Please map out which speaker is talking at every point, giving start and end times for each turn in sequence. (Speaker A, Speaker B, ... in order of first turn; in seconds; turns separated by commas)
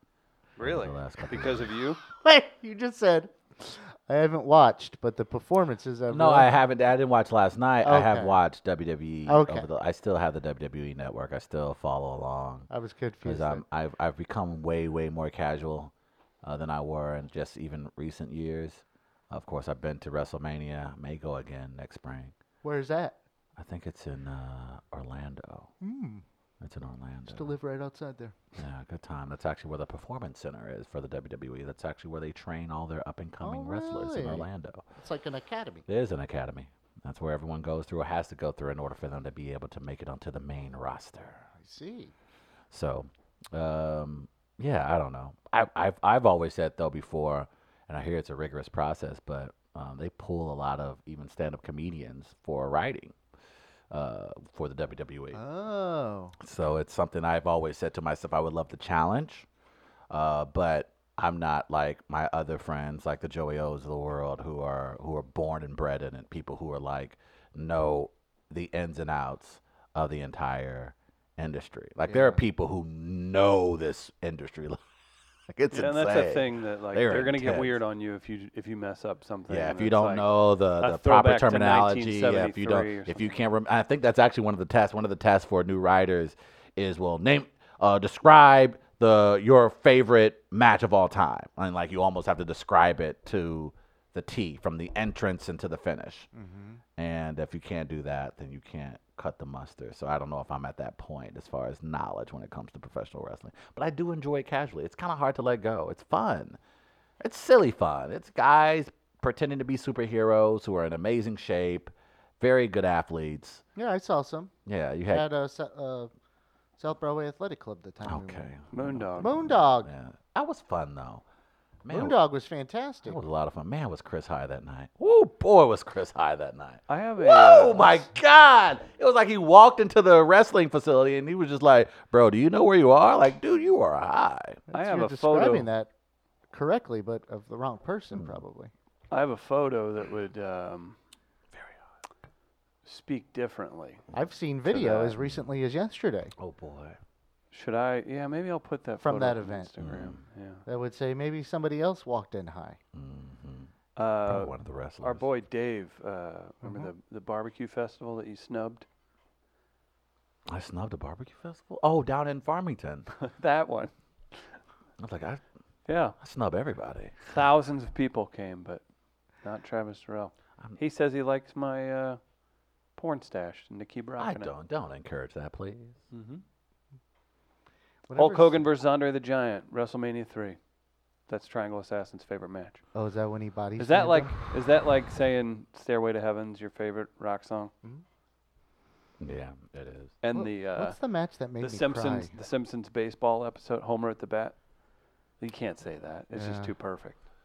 Speaker A: 0.6-2.0, Speaker B: 0.6-1.7, Speaker C: 2.2-6.5, Speaker B: 6.1-12.7, Speaker C: 7.8-8.4, Speaker C: 9.3-9.7, Speaker C: 12.7-13.6, Speaker B: 13.2-15.9, Speaker B: 16.4-22.3, Speaker C: 22.6-23.2, Speaker B: 23.6-25.7, Speaker C: 25.8-26.2, Speaker B: 26.6-27.5, Speaker C: 27.3-28.4, Speaker B: 28.6-34.8, Speaker C: 33.4-35.8, Speaker B: 35.9-41.5, Speaker C: 41.6-42.1, Speaker B: 42.7-53.1, Speaker B: 53.9-55.4, Speaker C: 55.3-56.3, Speaker B: 56.4-59.5, Speaker B: 60.1-74.8, Speaker C: 72.1-72.4, Speaker B: 75.5-77.8, Speaker A: 75.7-83.3, Speaker B: 79.5-96.3, Speaker C: 96.3-96.8, Speaker B: 97.0-106.6, Speaker B: 107.2-113.6, Speaker C: 113.8-114.5, Speaker B: 114.7-115.3, Speaker C: 115.1-116.1, Speaker C: 116.8-118.5, Speaker B: 118.0-121.2, Speaker A: 118.7-119.3, Speaker C: 119.2-119.9, Speaker B: 121.8-122.2, Speaker C: 121.9-123.2, Speaker B: 123.0-134.6, Speaker A: 126.9-128.0, Speaker C: 134.7-135.9, Speaker A: 134.7-135.7, Speaker C: 136.5-138.7, Speaker B: 138.1-138.4, Speaker A: 139.1-141.0, Speaker B: 141.5-141.8, Speaker A: 142.8-144.0, Speaker C: 144.1-146.3, Speaker A: 144.7-145.2, Speaker B: 146.4-147.0, Speaker A: 147.5-150.6, Speaker C: 149.0-149.7, Speaker B: 149.8-150.2, Speaker C: 150.7-152.8, Speaker B: 152.9-153.7, Speaker A: 153.9-158.8, Speaker B: 154.2-155.2, Speaker C: 156.6-156.9, Speaker B: 160.5-163.1, Speaker A: 163.2-164.6, Speaker B: 165.0-165.4, Speaker A: 165.8-166.2, Speaker B: 166.2-167.2, Speaker A: 167.3-168.8, Speaker A: 169.4-172.2, Speaker A: 172.9-174.5, Speaker B: 174.2-176.0, Speaker A: 176.1-176.4, Speaker C: 178.1-178.7, Speaker A: 178.2-180.6, Speaker A: 181.3-182.8, Speaker C: 182.9-184.3, Speaker A: 183.8-187.7, Speaker B: 189.2-190.1, Speaker A: 190.2-191.0, Speaker C: 190.3-192.3, Speaker A: 191.6-194.6, Speaker A: 195.4-197.2, Speaker C: 196.3-196.7